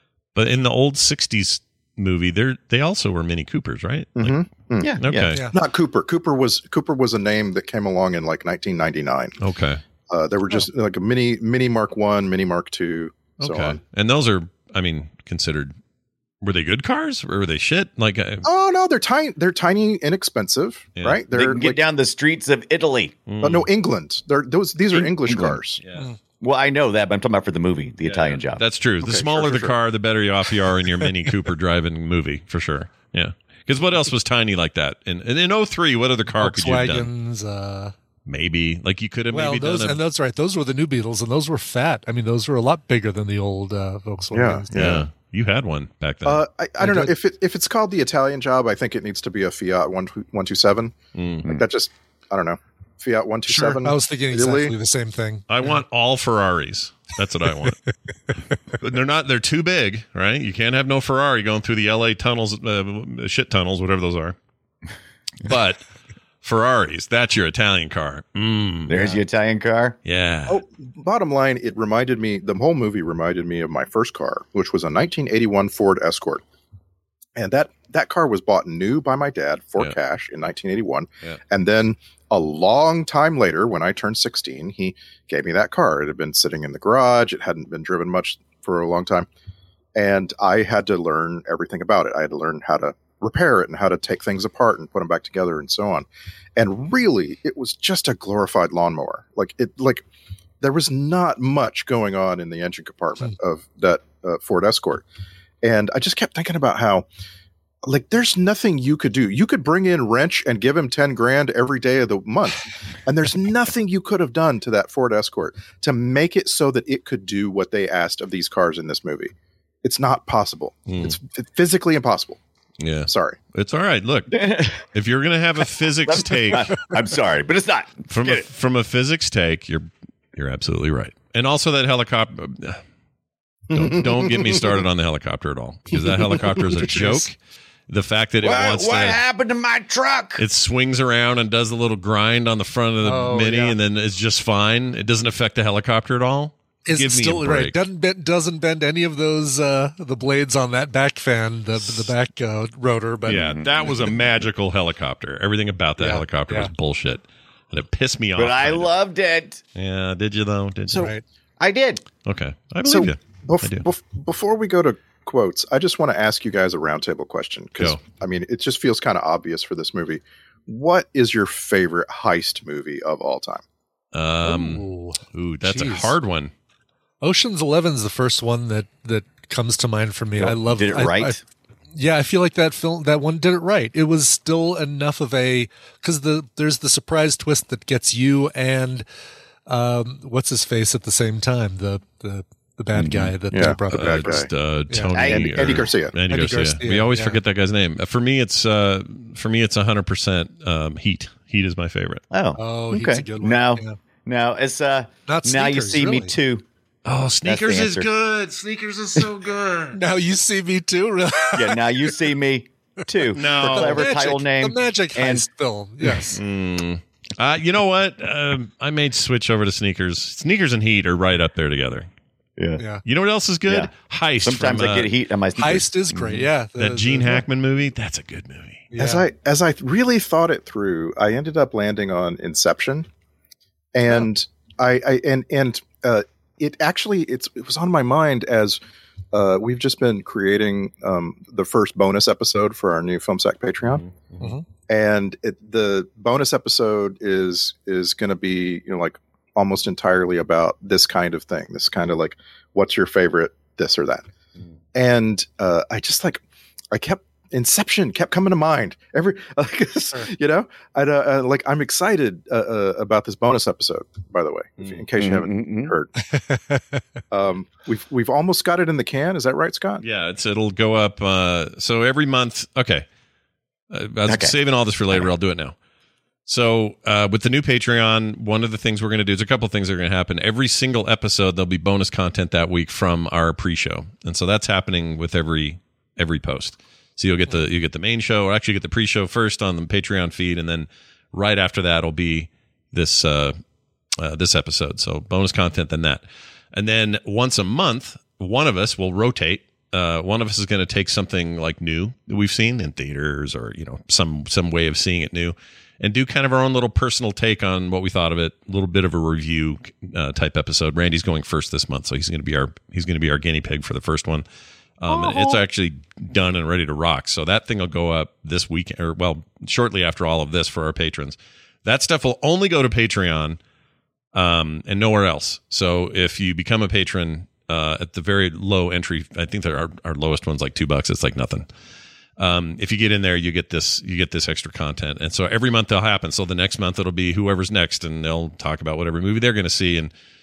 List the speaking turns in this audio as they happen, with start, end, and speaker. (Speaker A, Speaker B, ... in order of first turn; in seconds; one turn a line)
Speaker A: 0.3-4.4
Speaker B: 4.2-4.9
Speaker C: 4.8-5.3
Speaker A: 5.0-5.4
Speaker B: 5.5-9.3
Speaker A: 9.4-9.8
Speaker B: 10.1-13.8
Speaker A: 13.4-15.7
Speaker A: 16.4-18.5
Speaker B: 18.4-21.8
Speaker C: 21.3-23.2
Speaker A: 23.3-23.7
Speaker B: 23.4-25.8
Speaker C: 24.9-25.6
Speaker C: 26.4-28.6
Speaker A: 28.0-37.1
Speaker B: 29.0-29.7
Speaker D: 36.4-37.9
Speaker A: 38.2-40.0
Speaker D: 39.3-44.7
Speaker B: 44.3-45.1
Speaker A: 44.7-46.4
Speaker B: 46.2-54.8
Speaker D: 46.8-47.1
Speaker A: 51.1-51.4
Speaker D: 53.5-55.4
Speaker A: 55.5-57.8
Speaker A: 58.8-64.3
Speaker A: 65.4-65.8
Speaker A: 66.4-68.9
Speaker C: 68.9-70.0
Speaker A: 70.0-70.6
Speaker B: 70.5-76.4
Speaker B: 77.3-89.3
Speaker B: 89.9-100.0
Speaker B: 100.6-105.0
Speaker B: 105.6-107.0
Speaker B: 107.8-119.3
Speaker B: 119.8-122.4
Speaker A: 120.9-121.2
Speaker A: 122.8-126.9
Speaker B: 123.1-123.4
Speaker C: 124.3-124.8
Speaker C: 126.0-128.5
Speaker A: 128.1-132.8
Speaker B: 133.7-134.6
Speaker A: 133.7-137.3
Speaker D: 136.8-137.3
Speaker A: 137.9-139.2
Speaker C: 138.4-140.4
Speaker A: 140.4-147.8
Speaker D: 143.0-143.8
Speaker D: 146.8-153.5
Speaker A: 153.3-158.9
Speaker C: 153.3-154.0
Speaker D: 156.0-156.7
Speaker C: 158.3-159.6
Speaker A: 159.7-161.1
Speaker D: 160.9-161.2
Speaker C: 161.6-162.0
Speaker A: 162.2-163.8
Speaker B: 162.8-173.6
Speaker A: 174.1-176.5
Speaker D: 174.4-176.1
Speaker D: 177.2-181.4
Speaker C: 180.4-181.4
Speaker D: 181.9-189.0
Speaker D: 189.7-194.3
Speaker C: 192.9-193.3
Speaker B: 193.5-194.5
Speaker A: 193.9-202.2
Speaker C: 195.1-195.8
Speaker B: 195.3-196.1
Speaker D: 196.3-197.4
Speaker C: 202.3-206.6
Speaker D: 202.6-203.9
Speaker D: 205.3-206.3
Speaker A: 207.0-210.0
Speaker C: 207.4-208.1
Speaker D: 209.9-211.8
Speaker C: 211.5-215.4
Speaker A: 213.3-214.1
Speaker D: 213.6-216.4
Speaker A: 216.3-222.1
Speaker C: 222.6-222.8
Speaker A: 223.0-225.1
Speaker C: 223.7-223.9
Speaker C: 224.4-226.5
Speaker D: 225.6-227.4
Speaker A: 226.8-228.9
Speaker D: 228.9-229.2
Speaker B: 229.0-233.1
Speaker B: 233.9-238.8
Speaker B: 239.3-244.0
Speaker A: 243.9-244.4
Speaker B: 244.9-254.2
Speaker B: 254.9-266.1
Speaker C: 265.2-265.9
Speaker D: 266.2-267.0
Speaker B: 267.3-270.0
Speaker A: 270.0-273.0
Speaker A: 273.9-275.7
Speaker C: 274.3-274.6
Speaker A: 276.4-293.6
Speaker A: 294.2-314.4
Speaker A: 315.0-323.6
Speaker C: 315.1-315.5
Speaker A: 324.3-331.7
Speaker A: 332.4-340.1